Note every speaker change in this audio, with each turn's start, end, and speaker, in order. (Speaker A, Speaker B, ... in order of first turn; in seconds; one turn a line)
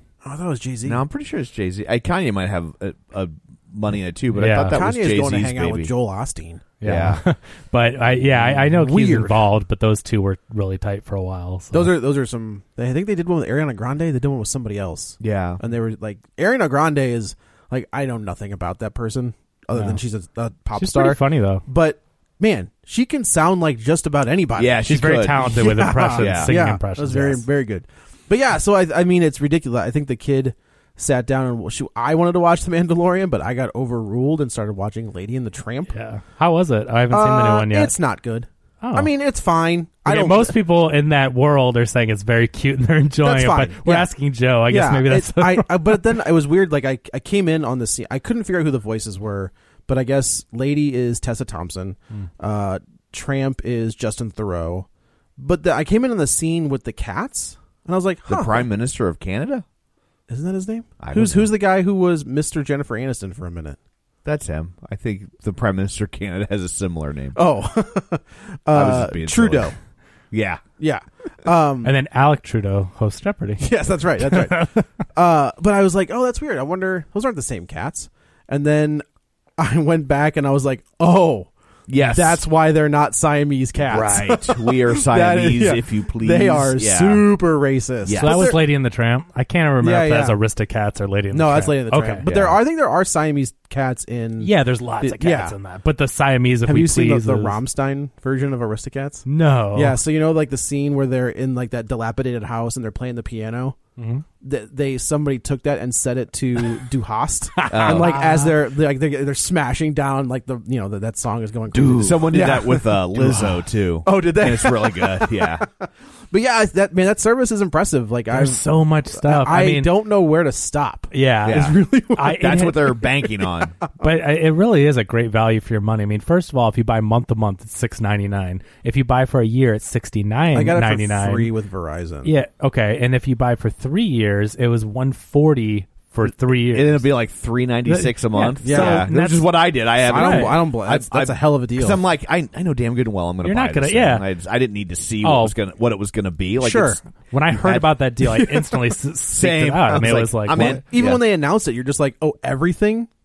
Speaker A: 0.2-1.0
Speaker B: 0.8-5.9
Speaker C: 4.3-4.8
Speaker A: 4.7-6.7
Speaker C: 6.8-11.9
Speaker B: 6.8-7.2
Speaker B: 8.3-8.6
Speaker A: 8.7-9.3
Speaker A: 11.7-35.9
Speaker B: 15.2-15.6
Speaker C: 19.7-20.0
Speaker C: 20.8-21.6
Speaker B: 24.6-25.5
Speaker C: 24.9-27.4
Speaker B: 26.1-26.5
Speaker C: 35.9-37.9
Speaker A: 37.1-40.6
Speaker C: 38.8-39.1
Speaker C: 40.0-46.1
Speaker A: 43.2-44.1
Speaker A: 44.7-58.6
Speaker B: 58.3-59.6
Speaker A: 60.3-63.8
Speaker B: 61.0-61.5
Speaker B: 64.2-67.4
Speaker A: 67.3-69.7
Speaker B: 68.7-69.7
Speaker B: 70.3-70.6
Speaker A: 70.8-71.9
Speaker C: 71.8-74.8
Speaker A: 73.6-79.0
Speaker A: 79.6-88.6
Speaker B: 81.9-82.4
Speaker B: 83.9-87.3
Speaker B: 88.0-88.6
Speaker C: 88.2-92.2
Speaker A: 89.8-90.4
Speaker A: 91.3-95.5
Speaker B: 92.2-92.6
Speaker C: 94.4-97.6
Speaker A: 96.6-103.8
Speaker C: 99.2-100.0
Speaker C: 104.0-104.2
Speaker A: 104.4-122.5
Speaker C: 107.5-108.6
Speaker B: 107.7-108.2
Speaker B: 111.7-115.7
Speaker C: 118.3-119.9
Speaker C: 121.1-123.0
Speaker B: 121.5-123.8
Speaker C: 124.0-131.5
Speaker A: 130.5-132.3
Speaker C: 132.2-137.1
Speaker B: 136.2-147.9
Speaker C: 137.8-140.5
Speaker A: 138.6-139.1
Speaker A: 140.0-142.0
Speaker C: 143.4-144.3
Speaker C: 145.2-145.5
Speaker A: 146.6-147.0
Speaker C: 147.3-150.8
Speaker A: 148.3-148.8
Speaker B: 149.3-151.2
Speaker A: 150.0-153.1